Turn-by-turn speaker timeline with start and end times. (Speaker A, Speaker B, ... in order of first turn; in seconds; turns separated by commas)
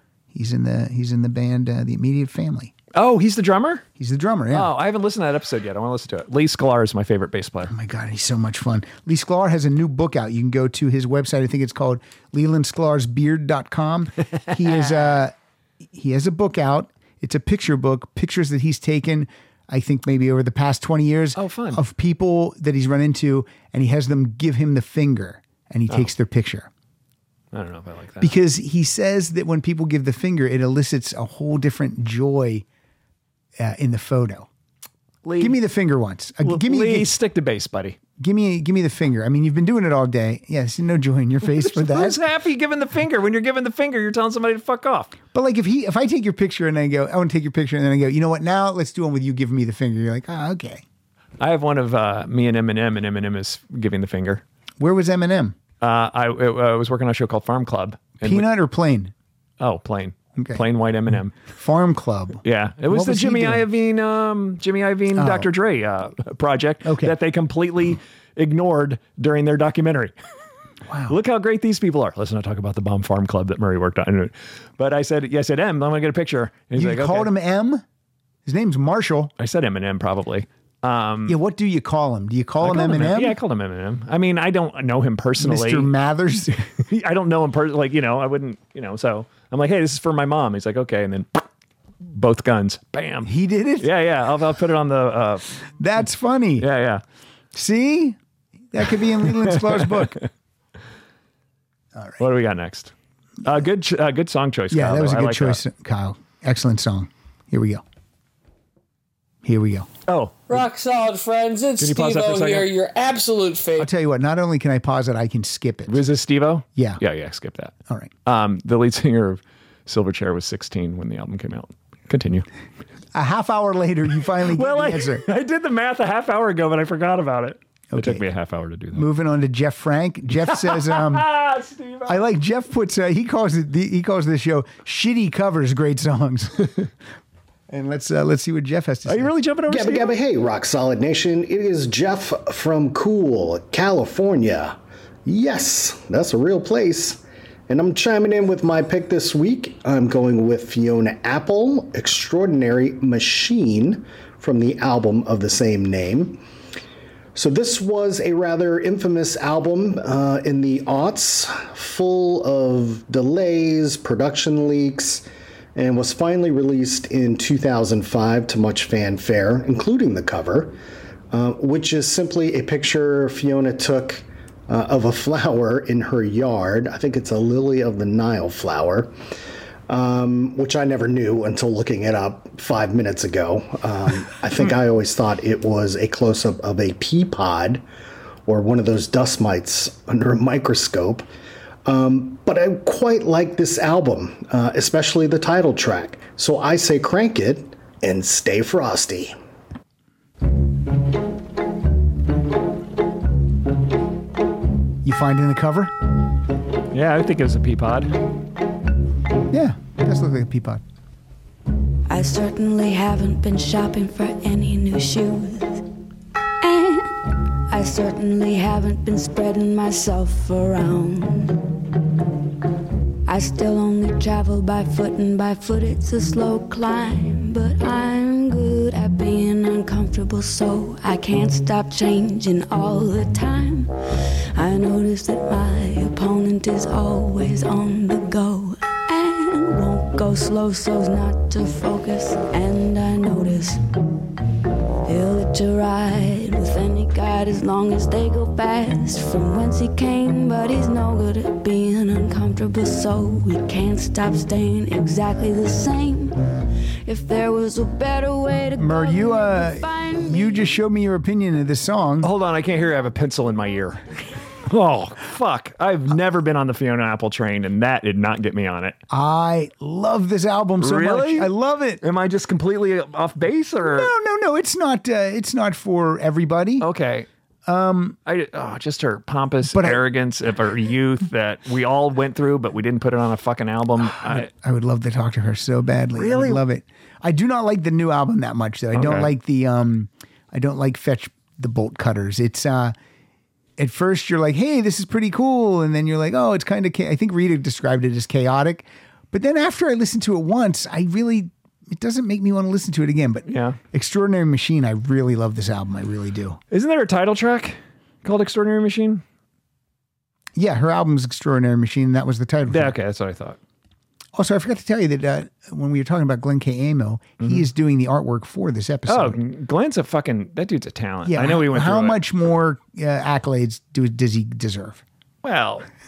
Speaker A: 0.3-2.7, Speaker B: 2.9-3.8, Speaker A: 4.0-4.7, Speaker B: 4.5-7.7, Speaker A: 7.7-15.3, Speaker B: 14.6-15.2, Speaker A: 15.9-26.7, Speaker B: 21.4-21.8, Speaker B: 27.5-28.3, Speaker A: 28.2-32.6, Speaker A: 33.6-34.5, Speaker B: 35.2-35.6, Speaker A: 35.4-37.1, Speaker B: 36.4-38.0, Speaker A: 38.2-42.2, Speaker B: 41.4-45.1, Speaker A: 45.3-50.8, Speaker B: 51.4-54.4, Speaker A: 54.8-55.5, Speaker B: 55.8-58.5, Speaker A: 58.2-59.1, Speaker B: 59.6-61.3, Speaker A: 60.4-60.6, Speaker A: 61.5-63.6, Speaker B: 62.4-70.1, Speaker A: 65.2-65.5, Speaker A: 66.8-67.1, Speaker A: 70.9-71.2, Speaker B: 71.1-77.3, Speaker A: 76.7-77.8, Speaker A: 78.5-79.3, Speaker B: 79.4-81.4, Speaker A: 81.3-83.3, Speaker B: 82.6-85.9, Speaker A: 85.4-86.5, Speaker B: 86.9-91.4, Speaker B: 92.1-95.6, Speaker A: 93.2-93.9, Speaker A: 95.8-96.7, Speaker B: 96.6-97.0, Speaker A: 97.5-98.2, Speaker A: 98.7-100.2, Speaker B: 99.5-100.2, Speaker A: 102.0-102.2, Speaker B: 102.2-102.9, Speaker B: 103.4-105.6, Speaker A: 104.7-107.8, Speaker A: 109.4-109.9, Speaker B: 110.1-110.6, Speaker C: 110.5-113.9, Speaker B: 111.8-112.7, Speaker A: 113.7-116.0, Speaker B: 115.9-117.7, Speaker A: 116.8-117.0, Speaker B: 118.2-122.5, Speaker A: 123.1-125.2, Speaker B: 124.5-129.1, Speaker A: 127.9-128.2, Speaker A: 128.9-131.2, Speaker B: 130.4-132.2, Speaker A: 132.1-136.7, Speaker A: 137.7-139.3, Speaker B: 139.1-140.2, Speaker D: 139.7-144.7, Speaker D: 145.2-156.4, Speaker D: 157.3-165.2, Speaker D: 165.8-170.7, Speaker D: 171.3-179.1, Speaker D: 179.9-187.8, Speaker D: 188.5-191.2, Speaker D: 191.8-199.3, Speaker A: 205.0-205.9, Speaker B: 206.9-208.1, Speaker A: 209.5-210.8, Speaker E: 212.1-215.8, Speaker E: 216.6-217.1, Speaker E: 217.7-221.6, Speaker E: 223.3-233.9, Speaker E: 234.5-243.8, Speaker E: 245.1-256.3, Speaker E: 257.0-260.7, Speaker A: 258.8-262.3, Speaker B: 262.2-264.0, Speaker B: 264.7-269.0, Speaker A: 269.1-272.0, Speaker B: 270.8-271.5, Speaker B: 272.0-274.1, Speaker A: 273.8-276.9, Speaker B: 276.8-277.3, Speaker A: 277.7-278.2, Speaker B: 278.2-284.5, Speaker A: 279.7-280.0, Speaker A: 284.2-292.9, Speaker B: 286.2-286.6, Speaker B: 288.9-289.3, Speaker A: 293.8-306.6, Speaker B: 303.5-303.8, Speaker B: 306.7-309.2, Speaker A: 310.6-312.9, Speaker B: 312.7-313.6, Speaker A: 314.4-319.4, Speaker B: 319.1-322.2, Speaker A: 321.2-325.0, Speaker B: 325.4-325.9